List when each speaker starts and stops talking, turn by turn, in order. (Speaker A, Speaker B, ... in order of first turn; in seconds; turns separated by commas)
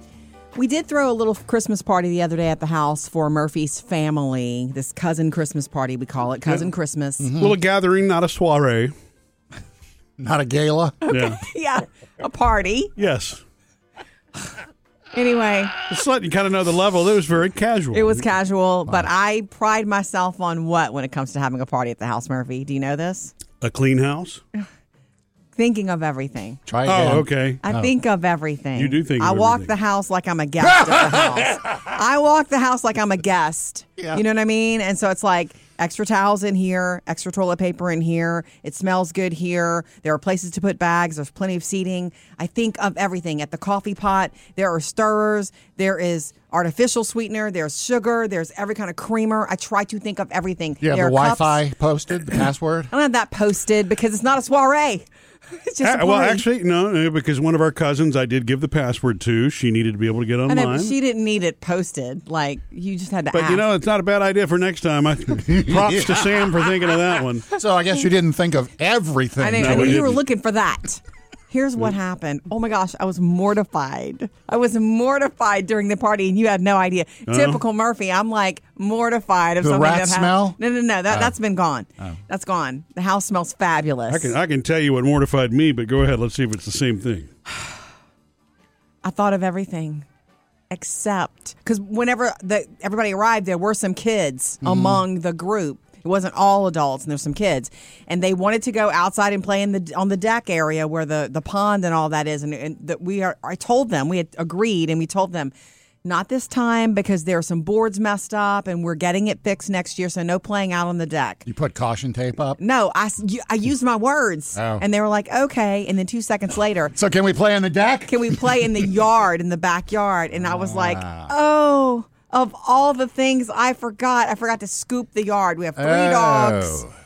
Speaker A: 0.6-7.3, Speaker B: 7.2-7.6, Speaker C: 7.4-8.9, Speaker B: 10.2-11.0, Speaker A: 11.0-12.9, Speaker C: 11.1-11.4, Speaker C: 13.0-13.4, Speaker A: 15.1-15.7, Speaker C: 15.9-18.2, Speaker A: 17.9-23.3, Speaker C: 23.6-24.4, Speaker A: 25.6-26.6, Speaker B: 26.7-27.9, Speaker C: 26.9-27.6, Speaker A: 27.6-51.6, Speaker C: 28.8-29.7, Speaker B: 30.7-31.5, Speaker B: 50.8-52.9, Speaker A: 52.3-55.1, Speaker A: 55.6-56.5, Speaker C: 55.8-61.0, Speaker A: 60.5-63.6, Speaker C: 63.3-67.5, Speaker B: 65.5-66.5, Speaker B: 67.5-70.2, Speaker A: 69.4-84.3, Speaker C: 69.6-70.2, Speaker C: 77.3-77.6, Speaker B: 79.6-80.6, Speaker B: 81.1-81.3, Speaker C: 84.1-87.3, Speaker A: 89.0-90.1, Speaker A: 90.7-105.5, Speaker B: 94.6-95.0, Speaker A: 106.0-111.5, Speaker B: 111.5-112.6, Speaker A: 112.6-117.0, Speaker B: 114.5-114.8, Speaker B: 116.9-118.5, Speaker A: 118.1-126.8, Speaker B: 120.4-121.3, Speaker B: 125.8-126.9